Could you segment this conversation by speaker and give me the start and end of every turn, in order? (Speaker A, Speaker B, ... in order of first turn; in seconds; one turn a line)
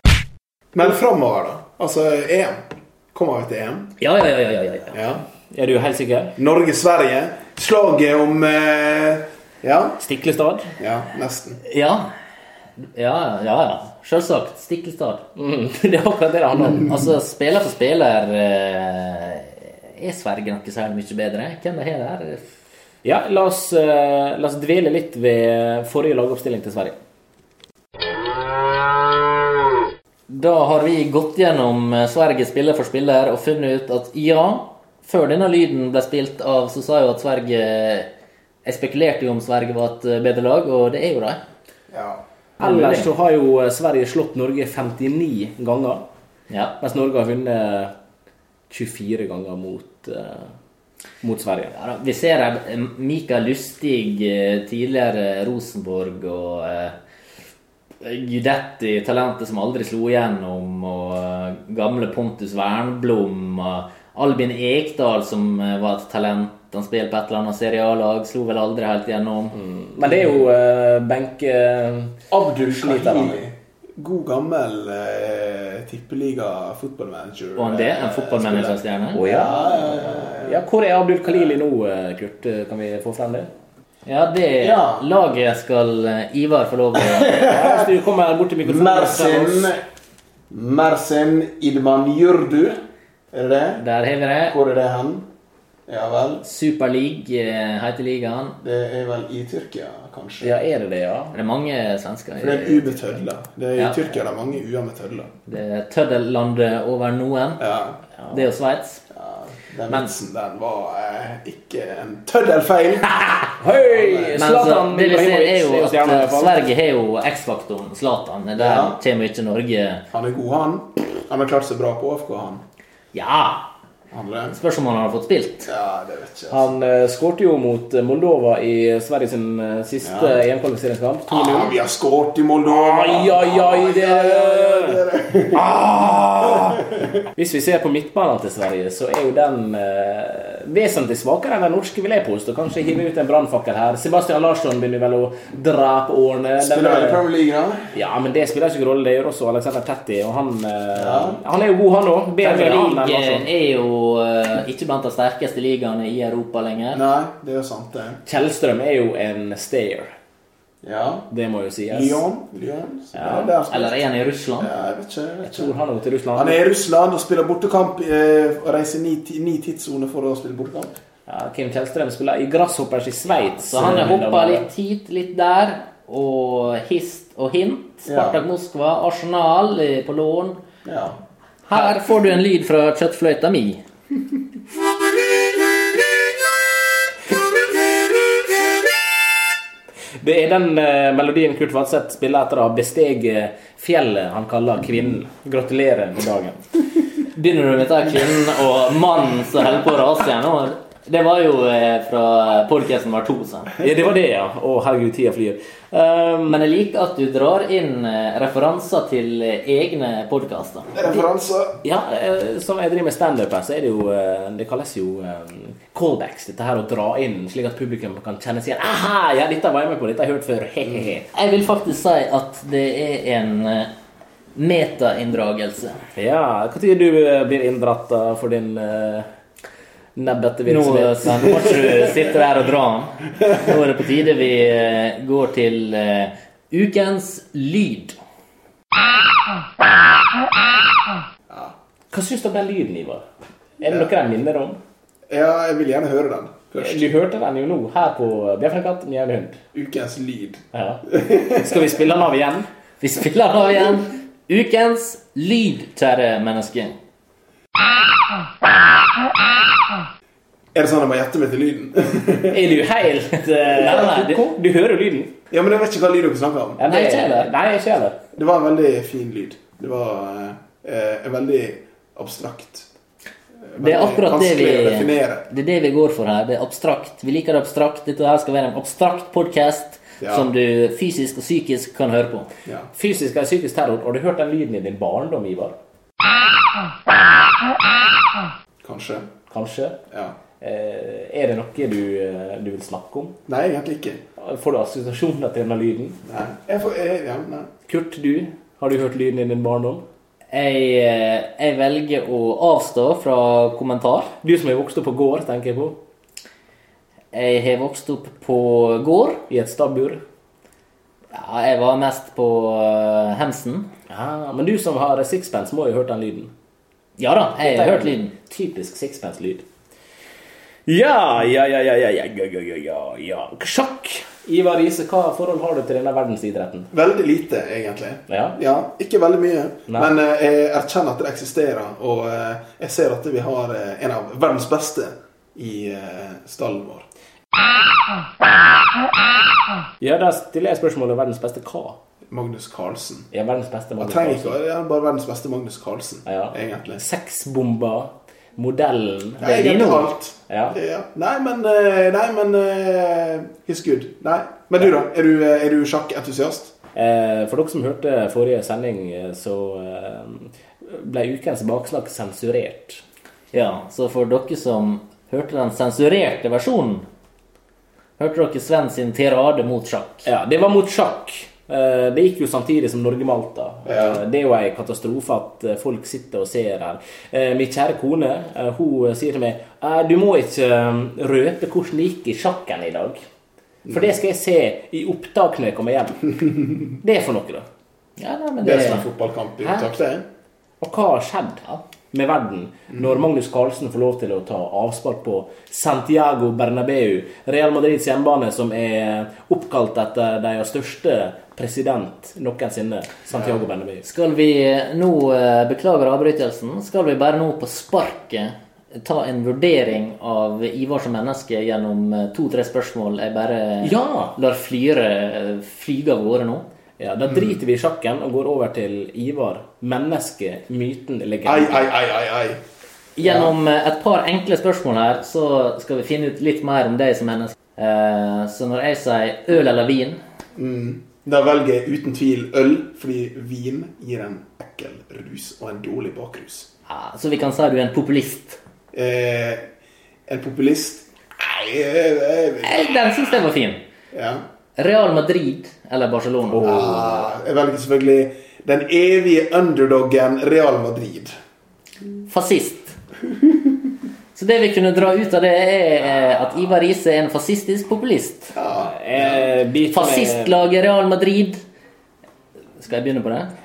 Speaker A: 0.7-3.9
Speaker B: 4.0-5.0
Speaker A: 4.9-5.2
Speaker C: 5.5-6.4
Speaker A: 6.4-10.0
Speaker C: 10.0-10.7
Speaker A: 10.8-11.6
Speaker B: 11.7-12.1
Speaker B: 12.9-15.2
Speaker C: 15.4-17.0
Speaker B: 16.6-22.4
Speaker C: 23.0-27.0
Speaker B: 30.3-38.1
Speaker B: 38.6-41.4
Speaker A: 41.9-42.2
Speaker C: 42.6-46.0
Speaker B: 42.6-43.1
Speaker B: 46.5-46.8
Speaker C: 46.8-47.9
Speaker C: 48.7-50.5
Speaker C: 51.2-51.7
Speaker B: 51.8-57.0
Speaker B: 58.0-69.6
Speaker C: 69.5-73.4
Speaker A: 72.3-80.6
Speaker B: 77.6-79.2
Speaker C: 79.1-83.5
Speaker B: 84.1-87.4
Speaker A: 84.6-85.1
Speaker A: 87.0-87.9
Speaker C: 87.4-89.7
Speaker A: 88.6-89.8
Speaker A: 90.5-92.8
Speaker A: 93.3-93.8
Speaker B: 93.8-94.6
Speaker A: 94.5-95.3
Speaker A: 95.9-96.4
Speaker B: 96.4-98.6
Speaker A: 98.6-100.5
Speaker C: 100.4-101.3
Speaker B: 101.3-103.2
Speaker A: 102.4-105.3
Speaker B: 103.8-104.1
Speaker B: 105.5-107.6
Speaker A: 107.6-108.0
Speaker B: 108.3-109.0
Speaker A: 109.1-113.2
Speaker C: 113.4-116.5
Speaker A: 113.8-114.4
Speaker B: 114.4-120.0
Speaker A: 118.6-119.0
Speaker A: 120.1-122.6
Speaker B: 123.1-123.7
Speaker A: 124.1-124.6
Speaker B: 124.5-125.7
Speaker A: 125.7-126.7
Speaker C: 126.5-131.8
Speaker A: 130.0-130.4
Speaker A: 131.3-135.7
Speaker C: 132.7-147.2
Speaker A: 136.4-137.0
Speaker A: 146.6-147.9
Speaker C: 147.9-153.5
Speaker A: 150.9-151.4
Speaker B: 152.4-157.0
Speaker A: 156.9-158.2
Speaker C: 158.3-160.1
Speaker A: 160.8-161.3
Speaker C: 161.3-162.2
Speaker A: 161.9-164.0
Speaker C: 163.1-163.5
Speaker B: 163.7-164.7
Speaker A: 164.6-165.8
Speaker C: 165.4-166.6
Speaker A: 166.3-170.9
Speaker C: 171.3-174.7
Speaker B: 173.6-180.6
Speaker A: 178.1-178.4
Speaker A: 180.8-181.2
Speaker B: 181.7-183.8
Speaker C: 190.2-196.6
Speaker B: 197.3-203.8
Speaker C: 203.8-206.6
Speaker B: 206.5-211.2
Speaker A: 210.9-211.8
Speaker C: 211.8-221.3
Speaker B: 221.3-223.9
Speaker B: 224.6-226.0
Speaker C: 226.2-229.3
Speaker C: 230.2-231.8
Speaker B: 230.7-238.2
Speaker A: 241.5-241.8
Speaker C: 242.1-243.2
Speaker C: 243.8-244.8
Speaker A: 245.3-247.1
Speaker C: 246.8-249.6
Speaker A: 249.7-251.8
Speaker C: 250.7-252.7
Speaker B: 253.0-257.0
Speaker A: 260.7-262.6
Speaker C: 262.5-265.3
Speaker B: 263.7-264.4
Speaker A: 265.5-266.8
Speaker C: 266.8-268.2
Speaker B: 266.9-267.5
Speaker A: 268.4-272.9
Speaker A: 273.7-275.5
Speaker B: 273.8-282.5
Speaker A: 280.2-280.5
Speaker C: 283.0-285.8
Speaker A: 288.8-289.3
Speaker C: 289.5-290.0
Speaker C: 290.6-293.4
Speaker A: 293.5-294.2
Speaker C: 294.4-296.2
Speaker A: 296.3-297.7
Speaker C: 297.9-300.0
Speaker B: 300.5-304.3
Speaker C: 304.4-306.0
Speaker B: 307.3-309.4
Speaker C: 309.5-310.2
Speaker B: 311.3-313.9
Speaker C: 314.1-316.5
Speaker B: 317.2-318.3
Speaker C: 317.6-319.6
Speaker C: 320.9-326.9
Speaker A: 326.9-337.1
Speaker C: 328.3-328.6
Speaker C: 340.0-342.0
Speaker A: 342.3-343.3
Speaker C: 343.3-344.6
Speaker A: 344.0-347.0
Speaker C: 346.3-349.5
Speaker A: 349.4-356.7
Speaker B: 349.4-350.1
Speaker C: 350.5-350.8
Speaker C: 356.9-363.0
Speaker B: 363.5-367.1
Speaker B: 368.2-370.3
Speaker C: 370.2-383.2
Speaker A: 373.9-374.2
Speaker A: 383.9-384.1
Speaker C: 383.9-387.7
Speaker B: 388.2-389.1
Speaker A: 388.6-390.2
Speaker C: 390.8-404.0
Speaker B: 404.0-416.7
Speaker C: 413.8-414.4
Speaker C: 417.0-421.9
Speaker A: 421.4-422.6
Speaker B: 423.2-430.2
Speaker A: 423.2-423.5
Speaker A: 430.6-436.7
Speaker B: 436.9-438.6
Speaker A: 438.9-439.6
Speaker A: 440.3-442.9
Speaker B: 442.6-443.8
Speaker A: 444.1-444.4
Speaker B: 444.8-447.1
Speaker A: 446.6-451.3
Speaker C: 446.6-447.0
Speaker B: 452.3-453.0
Speaker B: 454.4-458.6
Speaker A: 458.6-459.4
Speaker C: 458.8-460.6
Speaker B: 459.9-461.6
Speaker B: 462.8-463.5